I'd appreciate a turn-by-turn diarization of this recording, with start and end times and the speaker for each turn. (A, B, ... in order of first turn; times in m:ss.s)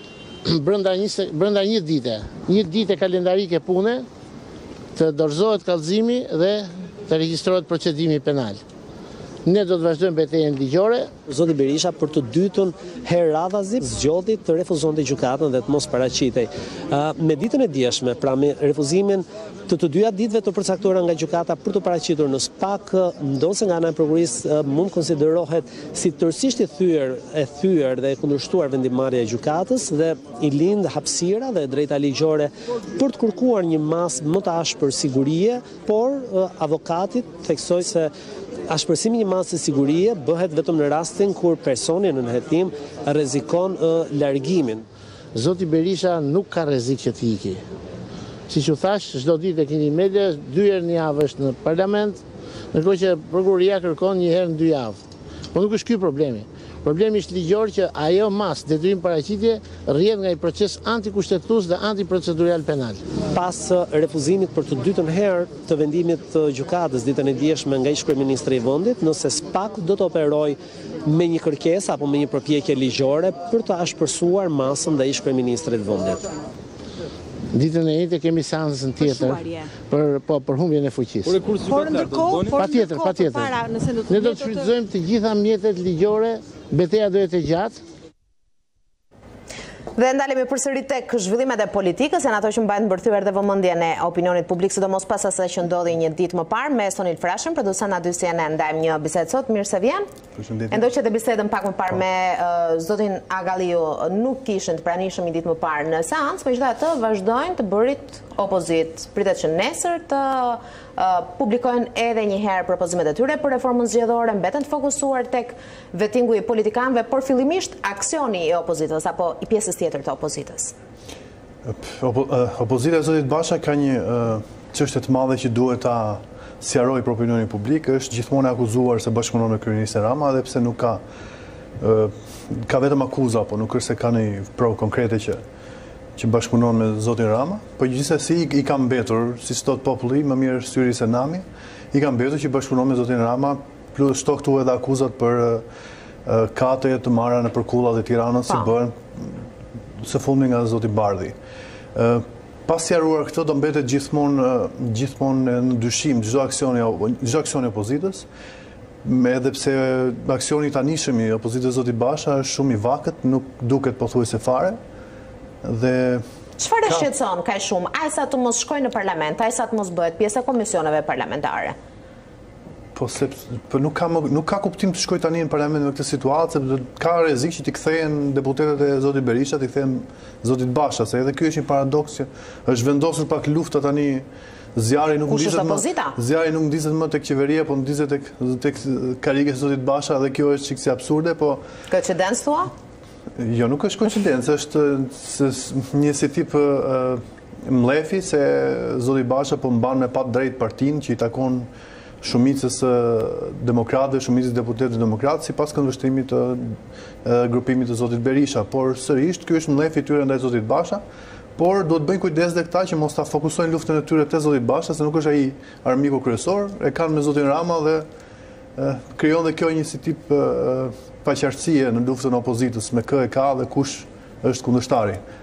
0:00.5-0:04.0 A
0:05.0-0:08.6 A
0:09.4-0:11.1 A
0:11.3-0:38.1 B
0:38.7-0:44.8 B
0:45.4-0:47.6 A
0:48.5-0:55.0 A
0:55.5-1:03.0 A
1:03.3-1:16.2 B
1:17.5-1:21.5 A
1:19.1-1:19.7 C
1:21.3-1:24.8 C
1:22.6-1:27.8 A
1:30.0-1:40.1 D
1:40.4-1:40.9 E
1:40.7-2:00.7 D
2:01.6-2:11.0 E
2:11.8-2:15.4 E
2:16.2-2:25.6 E
2:26.3-2:29.4 E
2:30.0-2:31.4 E
2:32.0-2:38.3 E
2:39.0-2:44.8 E
2:45.6-2:46.2 E
2:46.6-2:51.8 D
2:53.0-3:11.6 E
3:05.3-3:06.2 D
3:11.9-3:12.7 D
3:13.4-3:21.7 E
3:22.2-3:31.0 E
3:31.6-3:38.1 E
3:38.8-3:45.2 E